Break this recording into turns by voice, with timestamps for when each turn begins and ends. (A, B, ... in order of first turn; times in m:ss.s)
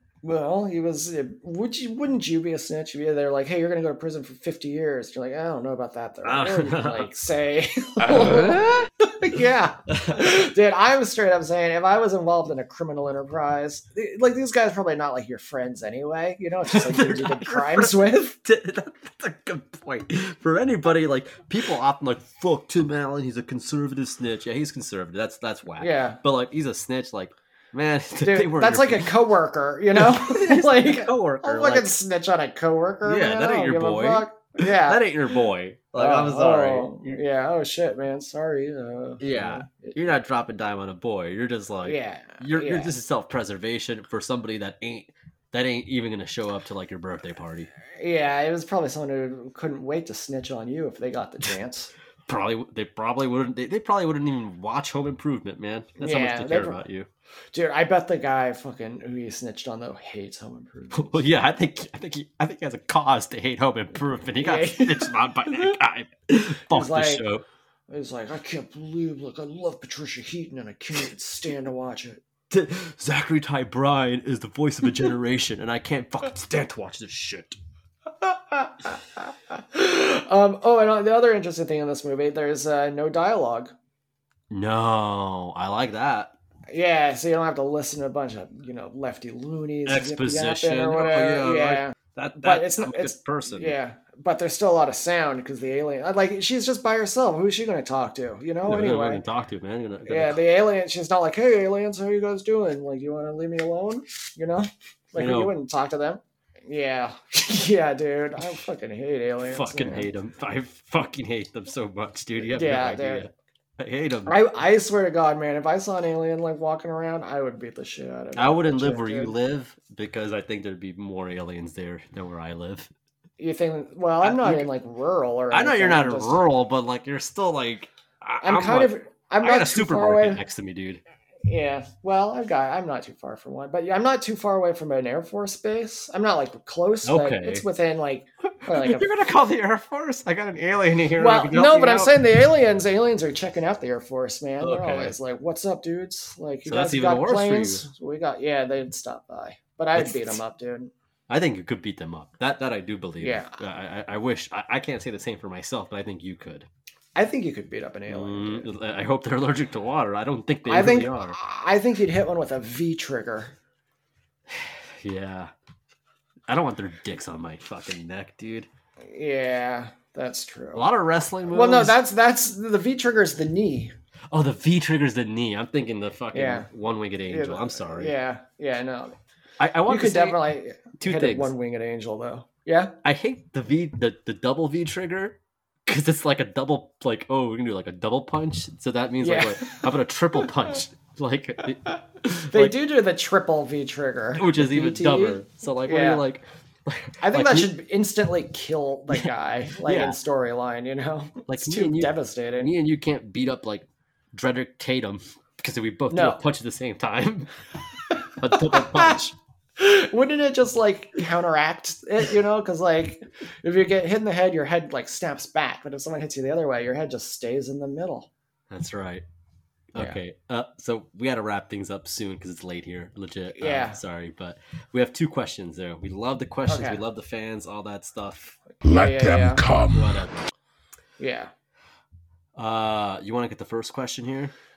0:00.2-0:18.4 A
0:06.2-0:07.1 B
0:08.0-0:08.9 B
0:09.9-0:10.3 B
0:16.7-0:29.1 B
0:25.8-0:26.2 A
0:28.2-0:35.1 A
0:29.9-0:31.9 B
0:33.0-0:37.2 B
0:35.9-0:40.0 A
0:39.2-0:47.7 B
0:41.8-0:42.9 A
0:48.0-0:51.9 A
0:52.3-0:57.1 B
0:56.0-0:56.8 A
0:57.5-1:01.2 A
1:00.9-1:07.4 B
1:04.4-1:05.6 A
1:06.7-1:07.2 A
1:07.9-1:12.2 A
1:12.5-1:17.6 B
1:18.2-1:23.7 A
1:24.5-1:26.3 B
1:26.7-1:39.2 A
1:29.8-1:33.8 B
1:38.6-1:40.4 B
1:40.1-1:50.1 A
1:45.1-1:45.5 B
1:49.5-1:54.4 B
1:52.4-1:53.3 A
1:54.2-1:59.3 A
1:58.3-2:02.9 B
2:03.4-2:06.4 A
2:04.2-2:04.7 B
2:05.5-2:11.0 B
2:08.4-2:10.4 A
2:11.4-2:19.1 A
2:17.0-2:17.6 B
2:18.4-2:22.2 B
2:21.2-2:30.9 A
2:24.6-2:25.2 B
2:26.6-2:27.8 B
2:29.9-2:30.4 B
2:31.3-2:36.7 B
2:33.2-2:33.6 A
2:37.1-2:38.7 A
2:38.1-2:41.4 B
2:40.6-2:43.5 A
2:44.5-2:45.5 B
2:46.5-2:48.7 B
2:49.0-2:50.9 A
2:50.7-2:52.0 B
2:51.5-2:53.9 A
2:54.3-2:58.1 B
2:56.3-2:56.7 A
2:57.3-2:59.2 A
2:59.6-3:01.5 B
2:59.9-3:03.0 A
3:03.0-3:12.7 B
3:09.2-3:09.8 A
3:12.5-3:16.2 A
3:14.4-3:17.7 B
3:17.2-3:22.7 A
3:19.8-3:20.2 B
3:21.5-3:27.5 B
3:26.1-3:26.4 A
3:28.2-3:29.2 A
3:28.4-3:29.3 B
3:29.8-3:38.3 A
3:38.7-3:39.2 B
3:39.9-3:48.6 B
3:43.5-3:44.0 A
3:46.7-3:47.0 A
3:48.8-3:49.7 A
3:49.7-3:50.4 B
3:51.2-3:51.5 A
3:52.5-3:54.5 B